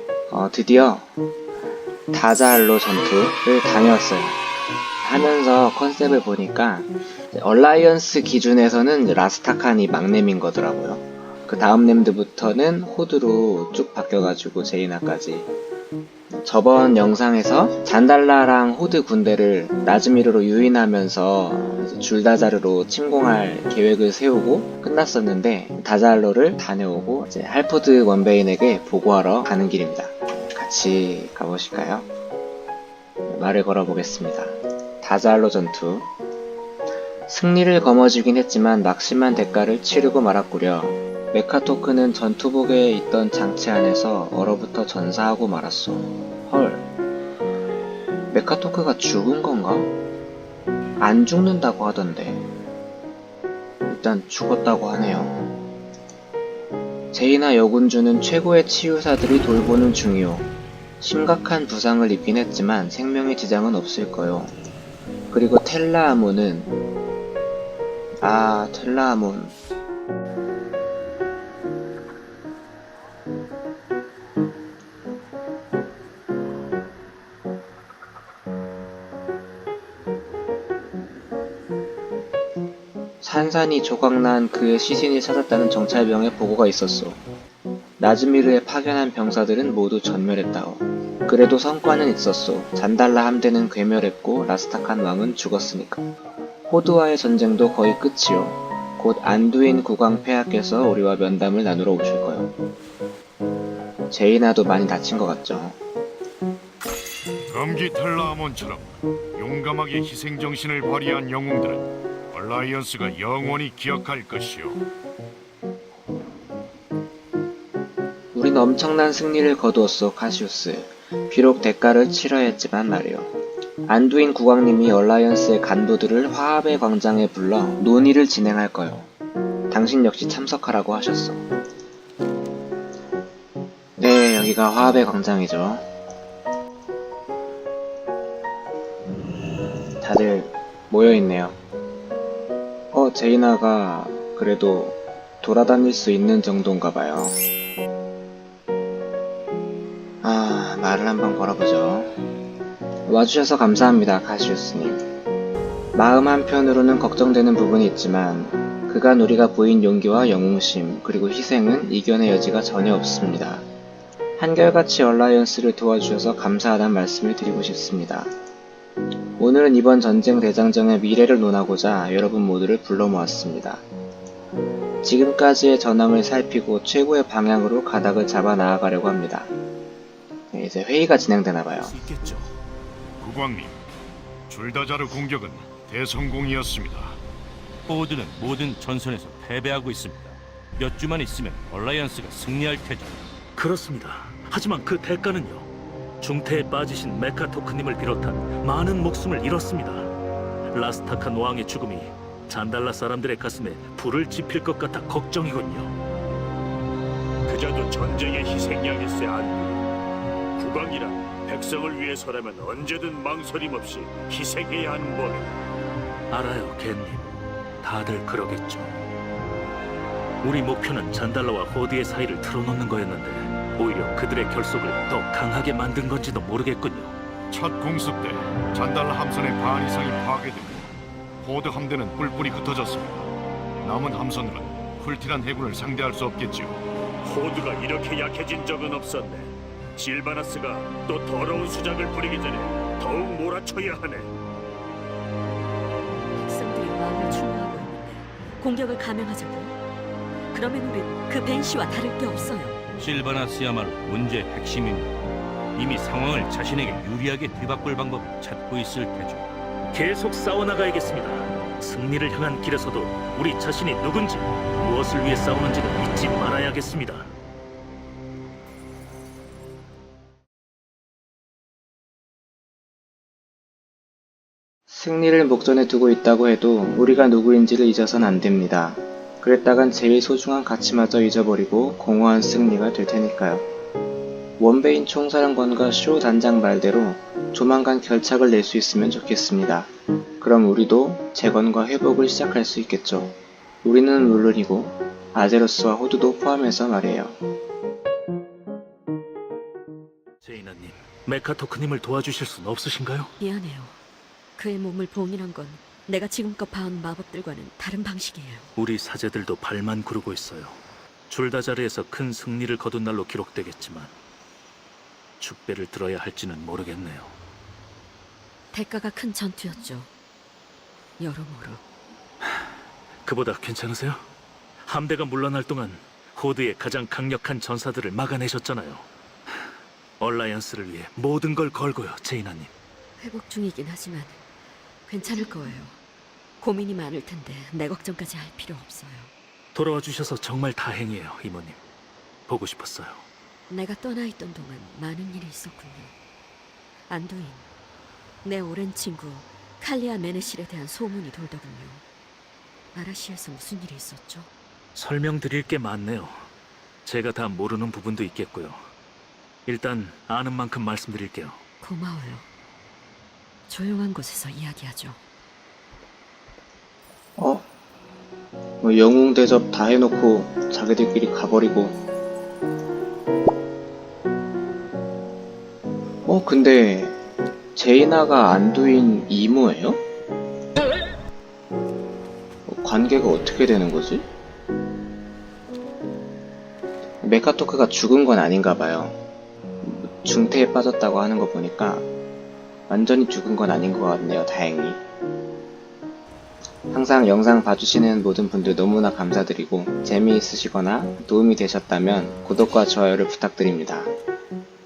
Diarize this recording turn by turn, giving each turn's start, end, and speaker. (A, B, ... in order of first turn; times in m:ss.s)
0:00.3-0:01.1 A
0:02.1-0:04.4 A
0:05.0-0:15.5 A
0:16.3-0:32.1 A
0:33.2-0:36.1 A
0:37.3-0:46.9 A
0:48.3-0:49.9 A
0:51.0-0:52.5 A
0:53.8-0:55.5 A
0:57.1-1:04.5 A
1:05.3-1:06.8 A
1:08.2-1:09.6 A
1:23.2-1:27.2 A
1:28.0-1:36.1 A
1:36.7-1:42.5 A
1:44.1-1:45.8 A
1:47.5-1:54.8 B
1:58.3-2:09.1 A
2:09.7-2:11.4 A
2:14.0-2:15.8 A
2:20.0-2:21.6 A
2:22.9-2:27.4 A
2:30.2-2:32.1 A
2:33.1-2:35.0 A
2:35.9-2:43.6 A
2:44.4-2:48.3 A
2:49.4-2:53.8 A
2:55.0-2:59.5 A
3:00.5-3:02.0 A
3:01.8-3:02.4 C
3:03.2-3:03.8 B
3:04.5-3:07.2 B
3:07.9-3:13.2 D
3:13.5-3:15.7 C
3:16.2-3:20.1 C
3:20.7-3:26.0 C
3:27.5-3:29.8 E
3:30.6-3:35.4 E
3:36.3-3:38.9 C
3:40.4-3:47.2 C
3:47.5-3:50.9 B
3:51.4-3:53.3 B
3:53.8-3:56.8 B
3:57.2-4:04.3 E
4:06.4-4:09.8 F
4:10.5-4:12.8 F
4:12.9-4:15.1 D
4:15.7-4:19.5 D
4:19.9-4:27.3 C
4:34.9-4:43.6 A
4:44.6-4:57.4 A
5:00.4-5:03.3 C
5:03.4-5:04.0 F
5:04.6-5:08.7 F
5:08.8-5:14.1 C
5:15.4-5:17.3 C
5:18.7-5:20.1 F
5:21.2-5:21.8 F
5:23.2-5:24.2 C
5:24.8-5:29.0 C
5:30.2-5:32.7 C
5:33.2-5:34.4 F
5:35.0-5:36.0 F
5:36.6-5:39.3 F
5:39.7-5:41.8 C
5:42.5-5:43.2 C
5:43.7-5:46.1 F
5:47.1-5:47.7 F
5:48.4-5:52.0 F
5:52.9-5:54.5 F
5:54.9-5:56.5 C
5:57.0-5:58.8 C
5:59.6-6:01.6 C
6:01.8-6:02.5 F
6:03.7-6:05.2 F
6:07.4-6:07.7 A
6:08.8-6:12.0 A
6:16.2-6:17.2 A
6:17.7-6:20.0 A
6:22.6-6:24.3 A
6:27.2-6:29.2 A
6:29.8-6:32.1 A
6:32.9-6:35.0 A
6:36.9-6:44.1 A